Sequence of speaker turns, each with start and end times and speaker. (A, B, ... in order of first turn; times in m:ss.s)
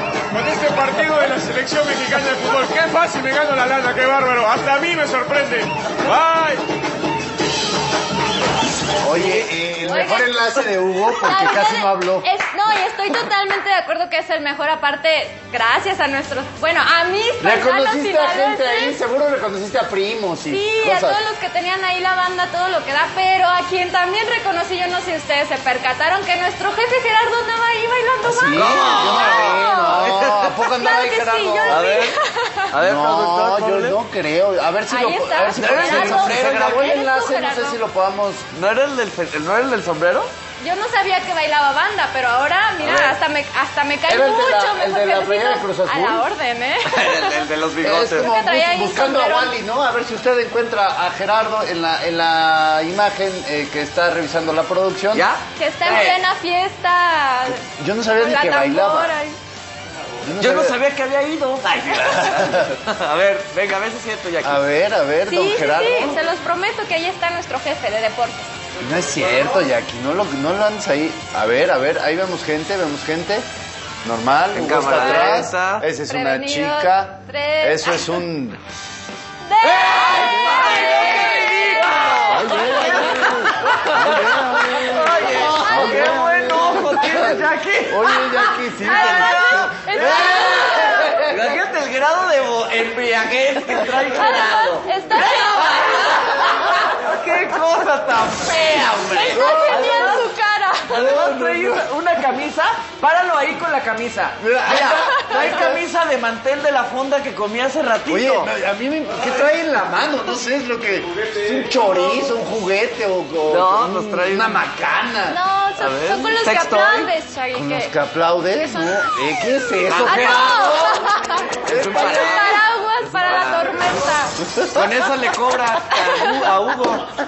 0:00.3-0:06.7 A
0:09.0-0:12.3 B
0:09.8-0:10.6 C
0:11.1-0:19.0 C
0:17.4-0:21.2 B
0:20.5-0:32.7 C
0:28.2-0:32.0 B
0:28.5-0:30.6 D
0:31.7-0:32.2 D
0:32.7-0:34.0 D
0:32.8-0:38.5 B
0:34.9-0:37.8 C
0:35.6-0:37.0 D
0:38.5-0:40.3 D
0:40.6-0:47.5 C
0:42.8-0:43.2 B
0:44.1-0:46.2 B
0:46.8-0:48.3 D
0:47.8-0:55.3 B
0:48.2-0:49.6 C
0:55.1-0:56.2 D
0:55.6-0:57.6 C
0:57.6-0:59.1 B
0:58.2-0:59.4 C
1:00.2-1:00.8 B
1:00.4-1:04.6 D
1:02.2-1:02.7 B
1:04.4-1:06.2 B
1:05.3-1:08.5 C
1:08.8-1:13.5 B
1:14.0-1:18.6 B
1:14.5-1:15.8 D
1:16.1-1:18.2 C
1:19.4-1:23.5 C
1:19.6-1:28.2 D
1:22.3-1:31.4 B
1:25.2-1:26.7 C
1:28.2-1:31.3 C
1:28.8-1:40.3 D
1:34.1-1:36.1 C
1:38.8-1:41.1 C
1:39.3-1:40.2 B
1:40.9-1:48.5 D
1:40.9-1:41.8 B
1:44.4-1:45.8 B
1:48.1-1:55.4 B
1:53.5-1:54.6 D
1:55.3-1:57.9 C
1:55.8-1:57.1 D
1:57.5-2:01.1 B
1:59.9-2:00.9 D
2:00.0-2:04.4 C
2:01.7-2:02.6 B
2:01.7-2:03.8 D
2:04.5-2:04.7 B
2:04.7-2:07.1 D
2:05.9-2:06.4 C